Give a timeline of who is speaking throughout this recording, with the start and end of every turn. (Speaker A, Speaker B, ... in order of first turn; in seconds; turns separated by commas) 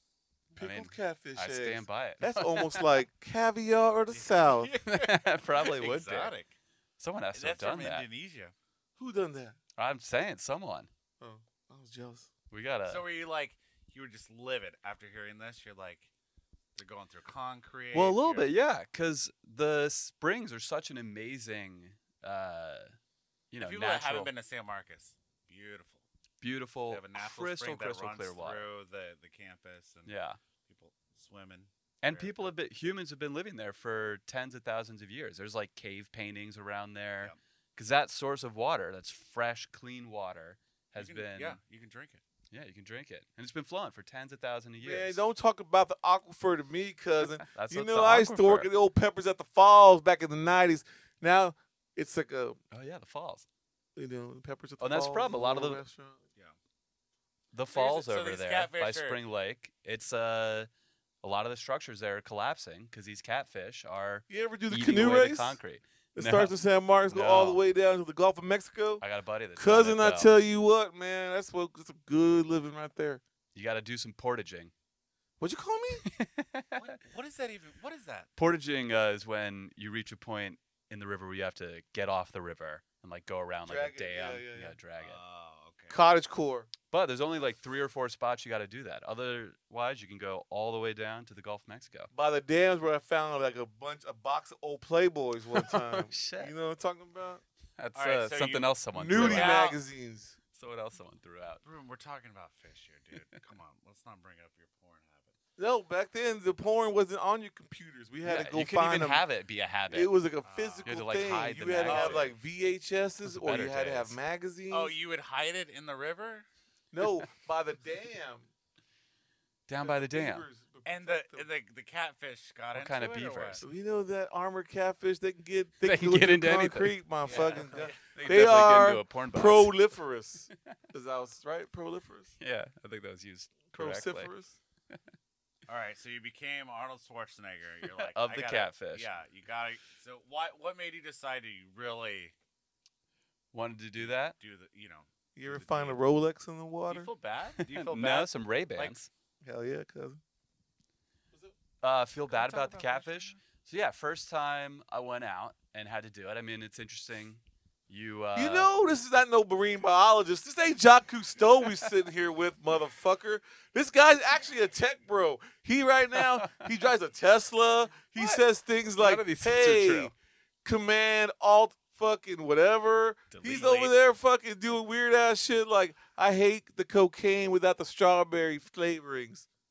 Speaker A: 0.5-2.9, Speaker B: 0.6-4.7, Speaker C: 4.1-6.5, Speaker A: 4.8-6.3, Speaker A: 7.0-8.1, Speaker C: 7.3-8.5, Speaker B: 9.0-9.6, Speaker A: 9.8-10.9, Speaker B: 11.2-12.3, Speaker A: 12.5-13.1, Speaker C: 12.9-16.1, Speaker C: 16.7-18.5, Speaker A: 17.9-22.9, Speaker A: 23.5-24.3, Speaker C: 23.6-26.0, Speaker A: 26.4-28.7, Speaker C: 26.9-30.1, Speaker A: 30.0-30.4, Speaker C: 30.7-32.5, Speaker A: 32.0-41.6, Speaker C: 41.0-42.2, Speaker A: 42.5-45.2, Speaker B: 44.8-52.6, Speaker A: 47.4-48.7, Speaker A: 52.7-53.5, Speaker B: 54.0-56.2, Speaker A: 54.8-55.8, Speaker A: 57.5-60.7, Speaker C: 57.7-59.2, Speaker A: 61.2-66.5, Speaker B: 64.3-65.6, Speaker B: 66.1-69.0, Speaker A: 67.1-67.6, Speaker A: 69.0-70.3, Speaker B: 69.6-73.2, Speaker A: 73.5-74.7, Speaker B: 75.4-76.0, Speaker A: 76.0-77.0, Speaker C: 76.7-78.3, Speaker A: 78.4-85.2, Speaker B: 83.7-84.7, Speaker C: 85.0-86.0, Speaker B: 85.9-86.7, Speaker A: 86.9-92.1, Speaker B: 92.1-97.4, Speaker A: 95.5-96.5, Speaker A: 97.8-99.7, Speaker C: 97.9-99.8, Speaker B: 98.9-100.4, Speaker A: 100.5-101.6, Speaker C: 101.6-105.3, Speaker B: 105.6-109.2, Speaker A: 108.2-110.1, Speaker B: 109.9-114.9, Speaker C: 110.4-111.0, Speaker A: 110.8-112.3, Speaker C: 111.8-112.3, Speaker A: 113.2-114.2, Speaker C: 114.7-116.5, Speaker B: 116.9-118.5, Speaker A: 119.7-120.4, Speaker B: 119.8-121.5, Speaker C: 120.8-123.6, Speaker A: 122.7-123.6, Speaker B: 123.6-132.3, Speaker A: 125.8-127.0, Speaker C: 127.2-128.0, Speaker A: 128.1-129.8, Speaker A: 132.4-134.3, Speaker B: 133.7-134.6, Speaker C: 135.7-142.3, Speaker A: 138.1-139.1, Speaker A: 143.5-144.3, Speaker C: 144.0-146.0, Speaker B: 145.3-147.1, Speaker C: 146.9-149.0, Speaker A: 147.6-149.1, Speaker B: 149.4-150.2, Speaker A: 151.8-158.7, Speaker C: 152.3-153.4, Speaker B: 158.3-170.1, Speaker A: 166.1-166.6, Speaker A: 169.0-170.1, Speaker B: 170.6-179.4, Speaker A: 173.3-173.9, Speaker C: 173.4-173.9